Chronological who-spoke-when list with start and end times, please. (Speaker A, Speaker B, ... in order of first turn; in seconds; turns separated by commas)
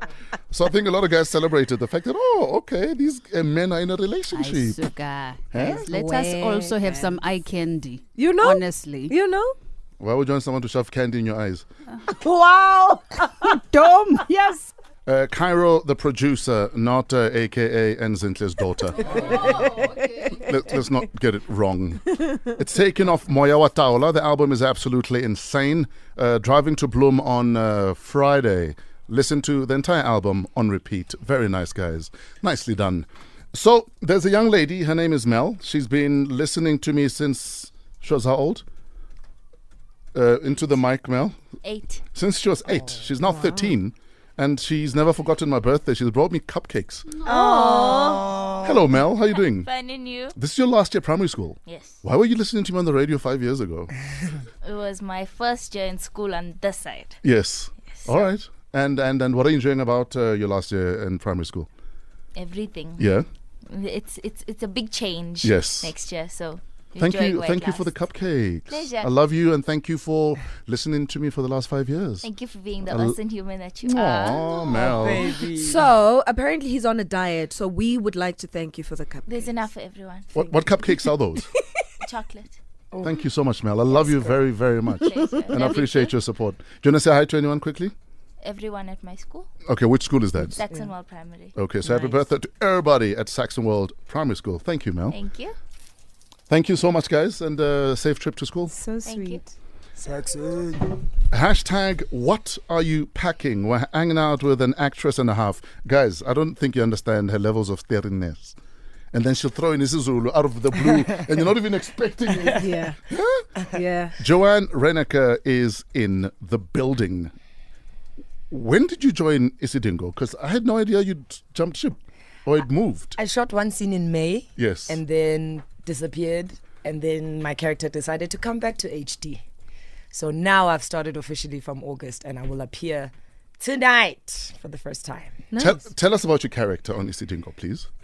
Speaker A: 0.5-4.8, Speaker B: 4.3-9.2, Speaker A: 5.5-5.8, Speaker C: 5.6-7.2, Speaker C: 8.2-9.6, Speaker A: 10.0-11.7, Speaker C: 12.1-13.4, Speaker B: 13.4-14.4, Speaker C: 14.3-14.7, Speaker A: 15.1-38.6, Speaker B: 19.3-20.3, Speaker A: 40.1-41.4, Speaker D: 41.6-42.0, Speaker A: 42.1-47.1, Speaker E: 47.2-48.9, Speaker C: 47.3-48.2, Speaker A: 48.6-49.7, Speaker D: 49.3-50.4, Speaker A: 50.4-53.9, Speaker D: 51.7-52.0, Speaker D: 54.6-57.2, Speaker A: 57.2-61.7, Speaker D: 62.4-63.1, Speaker A: 63.0-63.3, Speaker D: 63.7-68.0, Speaker A: 65.4-65.9, Speaker A: 67.0-72.3, Speaker D: 68.7-69.1, Speaker D: 72.2-75.1, Speaker A: 72.9-73.2, Speaker A: 73.8-75.3, Speaker E: 74.7-75.8, Speaker C: 75.5-79.4, Speaker D: 79.3-80.3, Speaker A: 80.3-81.5, Speaker D: 82.0-82.6, Speaker A: 83.0-87.9, Speaker E: 84.0-84.4, Speaker D: 85.0-86.1, Speaker D: 88.4-89.5, Speaker A: 89.7-90.6, Speaker D: 90.5-92.3, Speaker A: 91.6-95.2, Speaker D: 95.1-95.5, Speaker A: 96.5-98.8, Speaker E: 98.7-101.0, Speaker D: 99.0-99.4, Speaker A: 101.3-108.6, Speaker A: 109.1-113.5, Speaker E: 112.3-112.7, Speaker C: 112.5-113.0, Speaker C: 113.7-114.2, Speaker A: 114.2-117.3, Speaker A: 118.5-123.2, Speaker E: 123.2-129.4, Speaker A: 124.6-125.0, Speaker E: 130.1-135.8, Speaker A: 135.6-137.9